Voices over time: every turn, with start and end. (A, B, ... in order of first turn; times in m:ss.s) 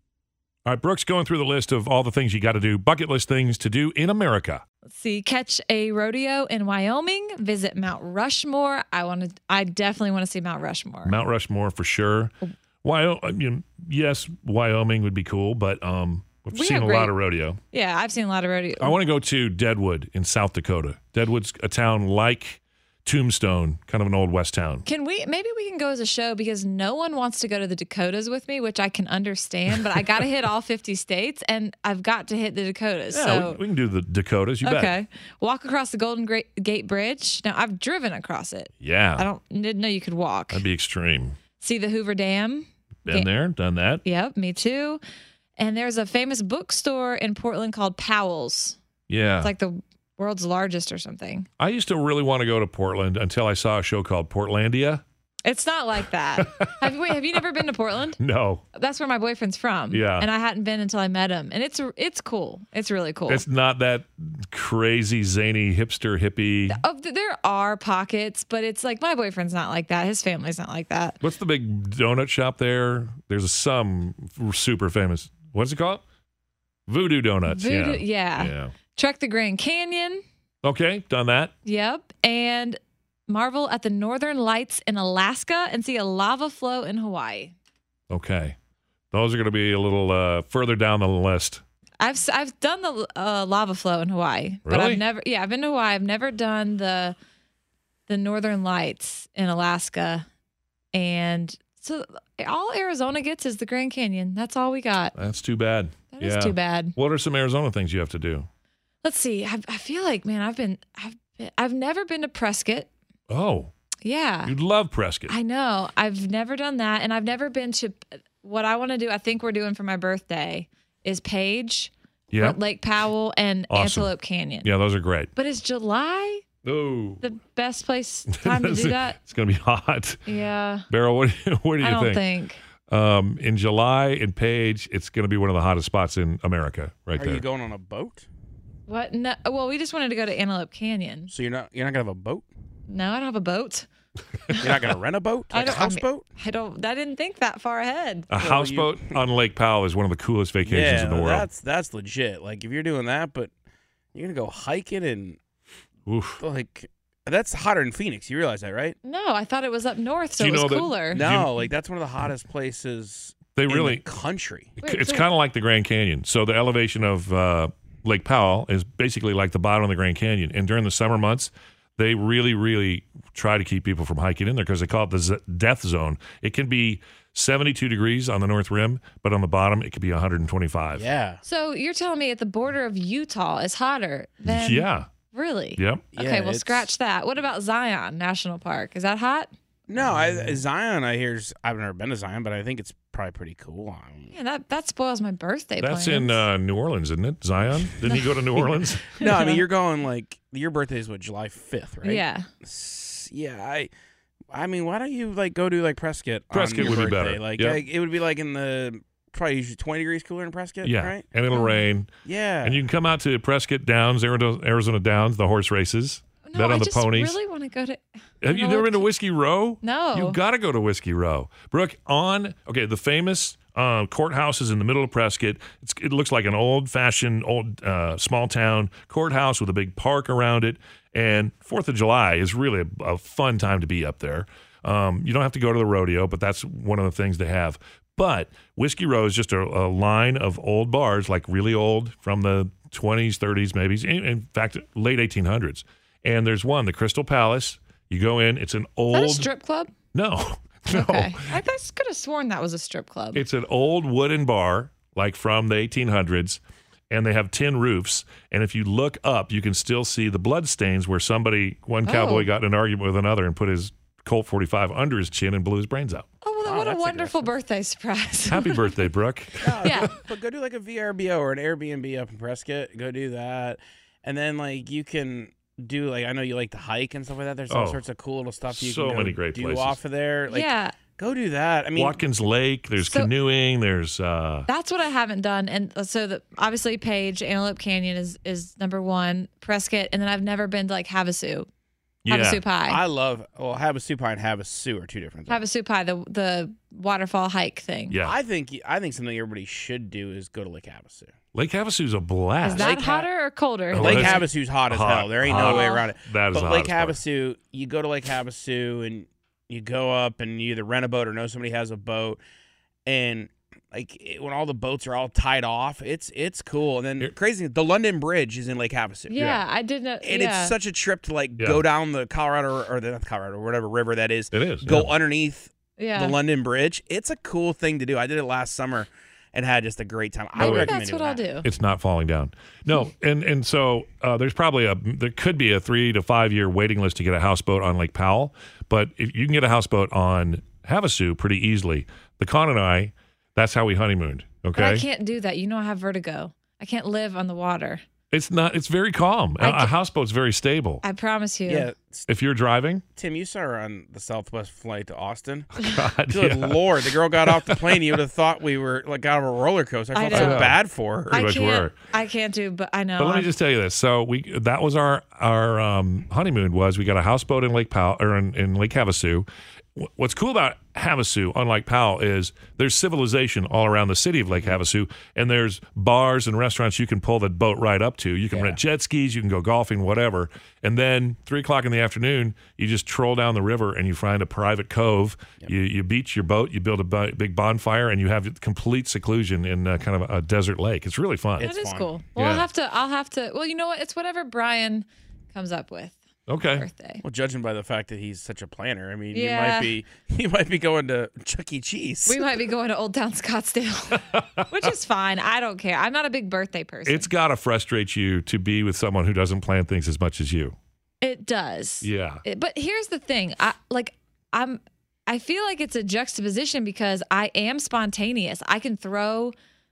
0:00.7-0:04.6 A
0:04.9-0:11.2 B
0:11.0-0:17.6 A
0:16.5-0:17.2 B
0:17.7-0:19.0 B
0:18.8-0:24.8 A
0:24.8-0:33.6 B
0:33.1-0:34.9 A
0:34.6-0:40.6 B
0:38.8-0:39.3 A
0:40.5-0:41.4 A
0:41.6-0:43.3 B
0:43.0-0:44.0 A
0:44.0-0:45.0 B
0:45.6-0:48.8 B
0:49.1-0:49.5 A
0:49.4-0:51.5 B
0:51.6-0:55.0 A
0:55.5-0:58.2 B
0:56.4-0:57.4 A
0:58.2-0:58.6 A
0:58.7-1:03.4 B
0:59.9-1:00.3 A
1:03.3-1:06.8 A
1:06.7-1:11.2 B
1:11.2-1:16.0 A
1:16.9-1:18.7 A
1:17.5-1:20.2 B
1:20.6-1:21.5 A
1:21.6-1:27.5 B
1:28.1-1:28.6 A
1:29.1-1:31.6 A
1:32.0-1:37.2 B
1:34.7-1:35.0 A
1:38.1-1:40.3 B
1:40.9-1:45.1 B
1:45.2-1:48.5 A
1:46.1-1:47.0 B
1:49.0-1:52.9 B
1:53.3-1:53.7 A
1:54.0-1:54.5 B
1:54.5-1:55.4 A
1:55.3-2:04.7 B
2:02.3-2:02.6 A
2:03.7-2:04.1 A
2:04.6-2:05.3 A
2:05.4-2:06.5 B
2:06.6-2:07.2 A
2:07.2-2:09.2 B
2:08.3-2:10.2 A
2:10.3-2:10.9 B
2:10.9-2:12.2 A
2:11.8-2:12.6 B
2:12.9-2:17.4 A
2:17.2-2:18.3 C
2:18.9-2:21.3 B
2:21.3-2:22.5 C
2:22.9-2:23.9 B
2:24.6-2:26.2 C
2:25.5-2:28.3 B
2:28.3-2:31.5 A
2:28.4-2:29.2 C
2:30.6-2:33.5 C
2:34.1-2:35.4 C
2:36.1-2:36.4 A
2:36.4-2:39.0 C
2:39.0-2:41.2 B
2:40.4-2:41.6 A
2:41.1-2:44.7 C
2:43.6-2:44.0 A
2:44.8-3:01.1 A
2:44.8-2:45.3 B
3:01.0-3:01.4 C
3:01.4-3:09.5 B
3:04.4-3:05.1 A
3:05.8-3:06.0 A
3:06.1-3:06.9 C
3:09.9-3:14.4 C
3:10.0-3:10.6 A
3:14.3-3:16.4 B
3:15.8-3:19.2 A
3:18.0-3:18.6 B
3:19.2-3:19.6 B
3:19.2-3:23.9 C
3:22.0-3:22.5 B
3:24.5-3:31.2 C
3:26.5-3:27.8 A
3:30.8-3:32.1 A
3:31.5-3:31.8 B
3:32.3-3:32.8 C
3:32.6-3:37.4 A
3:36.4-3:39.1 B
3:38.4-4:09.5 A
3:39.8-3:40.4 B
4:09.1-4:09.9 B
4:10.1-4:11.5 A
4:10.9-4:13.4 B
4:13.3-4:26.3 A
4:22.0-4:22.5 B
4:26.4-4:28.9 B
4:26.6-4:27.5 C
4:28.5-4:30.1 A
4:29.6-4:42.2 C
4:29.8-4:30.1 B
4:37.7-4:38.0 A
4:38.7-4:40.0 A
4:40.5-4:41.0 B
4:42.0-4:44.7 A
4:43.0-4:43.3 B
4:44.7-4:51.7 B
4:52.2-4:52.6 A
4:52.3-4:53.0 B
4:52.9-4:55.6 C
4:55.5-4:58.2 B
4:58.1-4:58.4 A
4:58.2-5:01.3 C
5:01.5-5:02.9 A
5:02.6-5:04.5 B
5:02.8-5:03.3 C
5:03.9-5:07.2 A
5:03.9-5:12.4 C
5:05.5-5:06.1 B
5:13.1-5:19.4 C
5:19.3-5:20.7 B
5:19.4-5:19.6 A
5:20.2-5:31.4 C
5:24.5-5:25.2 A
5:26.0-5:26.3 B
5:30.6-5:31.7 B
5:30.6-5:30.9 A
5:31.6-5:45.0 A
5:44.8-5:48.0 B
5:48.3-5:51.0 A
5:49.6-5:49.9 B
5:51.0-5:51.9 B
5:51.7-5:52.3 C
5:52.3-5:53.0 A
5:53.2-6:01.5 C
5:55.8-5:58.0 A
6:00.1-6:00.7 B
6:00.3-6:01.9 A
6:01.3-6:03.5 B
6:03.2-6:31.7 A
6:31.6-6:32.1 C
6:31.6-6:36.2 B
6:32.4-6:32.7 A
6:36.5-6:36.9 A
6:36.7-6:37.2 B
6:37.2-6:42.4 C
6:39.3-6:39.9 B
6:42.3-6:47.3 B
6:44.3-6:44.7 A
6:47.1-6:50.8 A
6:51.2-6:59.6 B
6:52.0-6:52.4 A